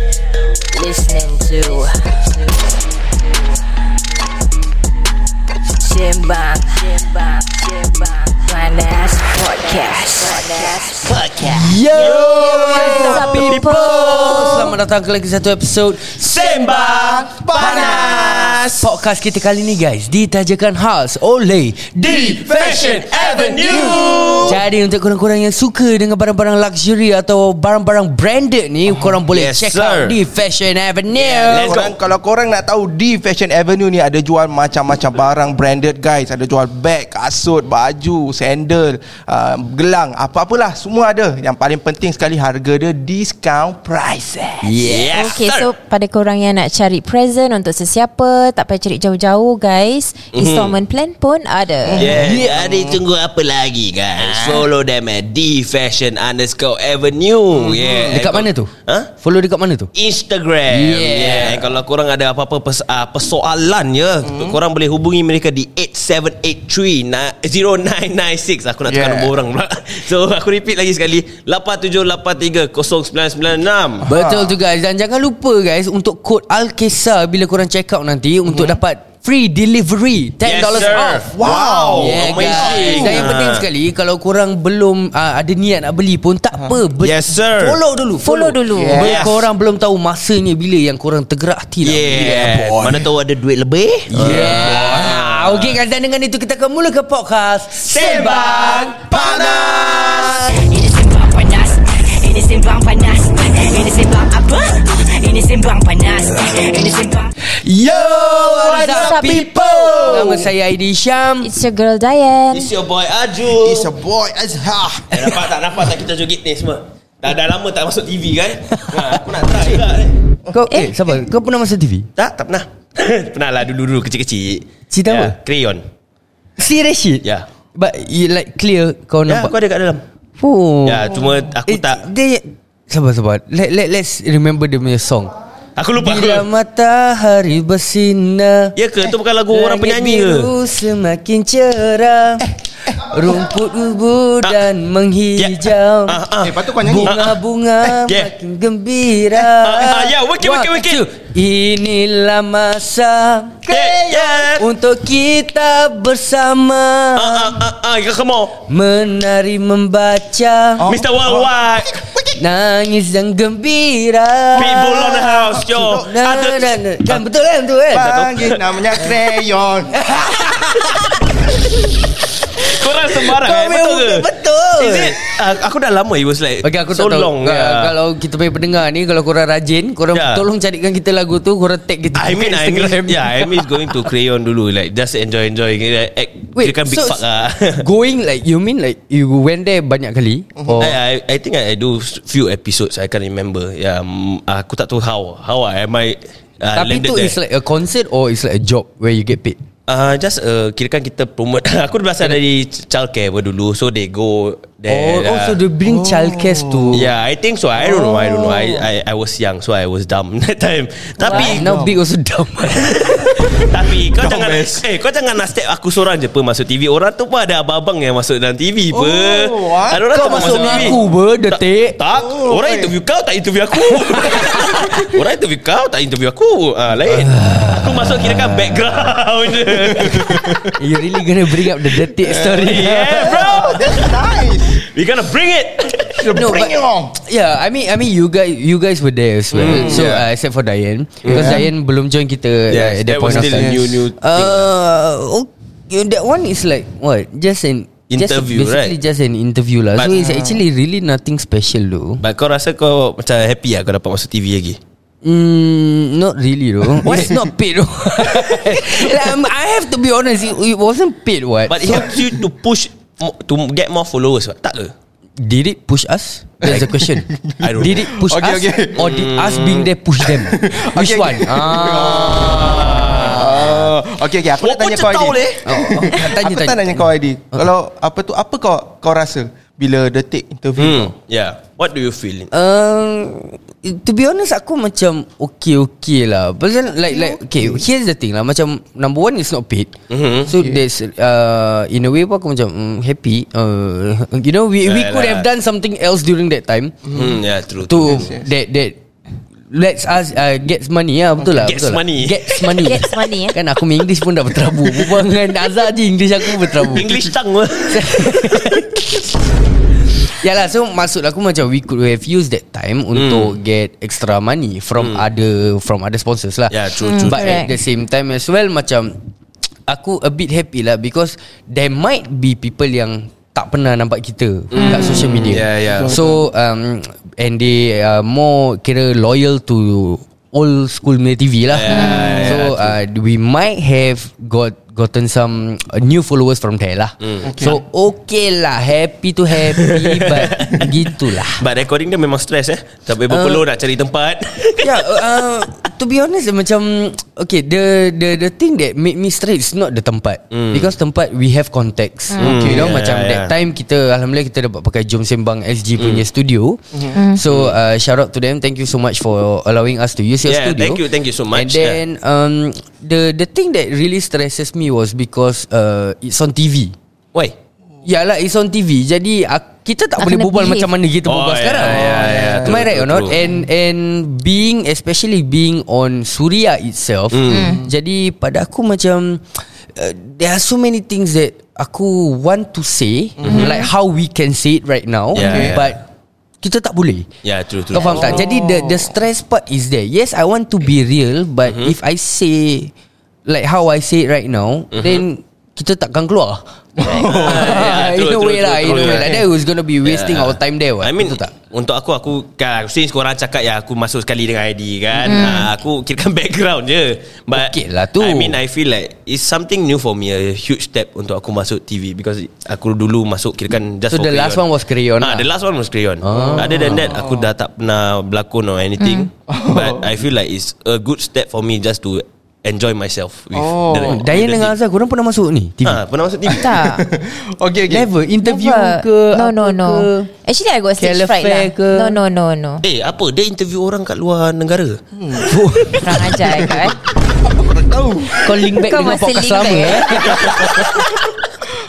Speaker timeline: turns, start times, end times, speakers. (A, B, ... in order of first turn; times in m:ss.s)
0:00.5-0:02.5 A
0:05.8-0:11.2 A
0:11.0-0:14.7 B
0:11.4-0:16.7 C
0:12.0-0:14.7 D
0:12.2-0:13.3 E
0:16.2-0:18.9 B
0:16.9-0:18.6 E
0:17.6-0:23.0 C
0:22.0-0:24.6 B
0:22.0-0:24.6 E
0:23.6-0:31.7 C
0:29.3-0:30.2 B
0:31.2-0:32.0 B
0:31.5-0:45.0 E
0:44.6-0:45.2 C
0:44.8-0:45.7 B
0:45.1-0:52.2 D
0:50.3-0:50.8 B
0:51.9-0:53.0 E
0:51.9-0:59.1 B
0:57.5-0:58.2 E
0:58.1-0:59.9 C
0:59.9-1:14.1 B
1:00.7-1:01.7 C
1:04.2-1:04.6 E
1:08.9-1:09.3 E
1:14.1-1:14.6 E
1:14.1-1:21.3 C
1:18.5-1:18.8 E
1:20.4-1:23.7 B
1:21.3-1:23.3 E
1:21.9-1:33.0 C
1:26.5-1:26.8 E
1:27.0-1:27.8 B
1:28.2-1:29.0 D
1:28.7-1:29.3 E
1:28.9-1:29.4 B
1:31.8-1:35.8 B
1:34.1-1:39.6 C
1:34.3-1:34.6 E
1:37.8-1:40.4 E
1:38.2-1:38.8 B
1:39.8-1:47.3 A
1:47.6-1:51.5 C
1:47.8-1:50.2 E
1:48.3-1:50.4 B
1:48.6-1:50.3 D
1:51.4-1:52.7 D
1:52.5-1:53.9 B
1:53.5-1:55.4 E
1:55.1-2:00.2 B
2:00.5-2:02.1 C
2:02.2-2:05.8 B
2:04.9-2:05.4 C
2:06.6-2:09.5 C
2:09.3-2:10.0 B
2:10.4-2:15.4 C
2:10.8-2:12.1 B
2:15.8-2:16.5 B
2:16.0-2:18.8 C
2:18.8-2:20.5 B
2:19.5-2:26.2 C
2:25.4-2:27.4 B
2:26.4-2:27.2 E
2:26.8-2:33.7 C
2:27.9-2:28.3 B
2:29.3-2:31.1 B
2:33.7-2:34.7 B
2:33.7-2:34.5 E
2:34.6-2:37.6 C
2:37.2-2:38.6 B
2:38.7-2:40.9 C
2:40.8-2:42.3 E
2:40.8-2:42.0 B
2:42.4-2:45.1 C
2:44.6-2:46.1 E
2:44.6-2:47.2 B
2:45.6-2:48.2 C
2:47.9-2:48.7 B
2:47.9-2:50.0 E
2:49.9-2:51.4 C
2:52.6-2:55.3 C
2:52.6-2:57.9 B
2:56.6-3:03.9 C
3:00.1-3:00.4 B
3:02.1-3:07.8 B
3:06.5-3:07.2 C
3:07.8-3:11.0 C
3:10.6-3:10.9 E
3:10.8-3:17.3 B
3:16.8-3:19.6 C
3:19.9-3:25.6 B
3:24.9-3:27.0 C
3:25.8-3:27.0 E
3:26.9-3:31.6 B
3:27.8-3:28.8 E
3:31.2-3:32.0 E
3:31.3-3:33.5 C
3:33.1-3:50.6 B
3:34.1-3:34.8 E
3:38.9-3:41.0 E
3:40.1-3:42.0 C
3:42.1-3:42.9 E
3:44.3-3:44.9 C
3:47.1-3:49.0 C
3:49.6-3:50.7 E
3:50.7-3:53.6 C
3:51.9-3:54.9 E
3:52.6-3:56.2 B
3:56.2-3:57.2 E
3:56.2-4:12.2 C
3:59.5-4:00.2 B
3:59.6-4:00.2 E
4:01.2-4:01.6 B
4:01.3-4:01.7 E
4:02.7-4:04.7 B
4:03.3-4:04.0 E
4:08.1-4:09.0 B
4:10.0-4:10.3 B
4:10.2-4:10.6 E
4:12.2-4:14.8 B
4:15.2-4:22.1 C
4:17.1-4:17.5 E
4:18.4-4:18.9 E
4:21.7-4:24.9 B
4:25.4-4:33.8 C
4:26.6-4:29.1 E
4:27.6-4:28.1 B
4:29.0-4:29.9 B
4:30.3-4:41.1 E
4:32.2-4:33.9 B
4:34.6-4:35.7 B
4:35.6-4:37.6 C
4:40.8-4:42.5 B
4:42.5-4:57.0 C
4:47.1-4:47.8 E
4:50.1-4:50.5 B
4:50.5-4:50.8 E
4:54.8-4:55.4 B
4:57.0-4:57.4 E
4:57.1-4:58.3 B
4:57.9-4:59.0 C
4:58.0-4:58.5 E
4:59.7-5:07.1 C
5:01.4-5:03.0 B
5:02.8-5:03.6 D
5:06.8-5:08.8 B
5:07.9-5:09.4 C
5:10.3-5:19.2 C
5:13.2-5:13.5 B
5:15.0-5:15.2 B
5:16.7-5:17.7 B
5:17.0-5:17.7 D
5:19.9-5:41.6 C
5:24.7-5:26.2 B
5:24.7-5:25.2 D
5:25.9-5:26.4 E
5:31.7-5:33.0 B
5:31.9-5:32.6 D
5:37.2-5:37.8 B
5:37.4-5:37.8 E
5:39.7-5:45.2 B
5:43.3-5:43.7 C
5:44.8-6:01.0 C
5:50.5-5:50.9 B
5:52.4-5:53.5 B
5:52.4-5:52.9 E
5:56.0-5:56.2 B
5:56.9-5:57.2 E
5:57.1-5:57.4 D
5:57.5-5:57.8 B
6:00.4-6:02.0 B
6:01.5-6:07.0 C
6:08.0-6:26.0 C
6:10.2-6:10.9 D
6:11.3-6:13.4 B
6:11.8-6:13.6 E
6:17.3-6:17.8 B
6:17.5-6:17.8 D
6:17.5-6:17.9 E
6:23.4-6:23.7 E
6:23.4-6:23.8 B
6:23.5-6:23.9 D
6:25.3-6:26.0 B
6:25.4-6:25.8 E
6:26.6-6:27.3 C
6:27.4-6:28.5 B
6:27.9-6:32.9 C
6:28.0-6:29.1 E
6:31.7-6:31.9 B
6:33.5-6:41.5 C
6:34.9-6:35.2 B
6:37.0-6:38.0 E
6:37.2-6:39.4 B
6:39.0-6:39.4 E
6:40.0-6:54.7 B
6:45.3-6:45.7 D
6:47.5-6:48.6 C
6:54.1-6:55.5 C
6:55.2-7:04.7 B
6:56.2-6:57.1 C
6:56.3-6:57.5 E
6:59.0-6:59.3 D
6:59.5-7:00.1 E
7:03.5-7:04.2 E
7:04.0-7:06.0 C
7:05.8-7:06.7 B
7:06.4-7:08.1 E
7:06.5-7:07.0 D
7:07.9-7:10.3 C
7:08.4-7:12.8 D
7:11.0-7:12.2 C
7:12.8-7:15.0 B
7:15.1-7:15.6 E
7:15.4-7:16.4 C
7:16.0-7:17.0 D
7:16.5-7:18.7 E
7:18.4-7:21.0 C
7:18.6-7:20.6 D
7:20.3-7:20.9 E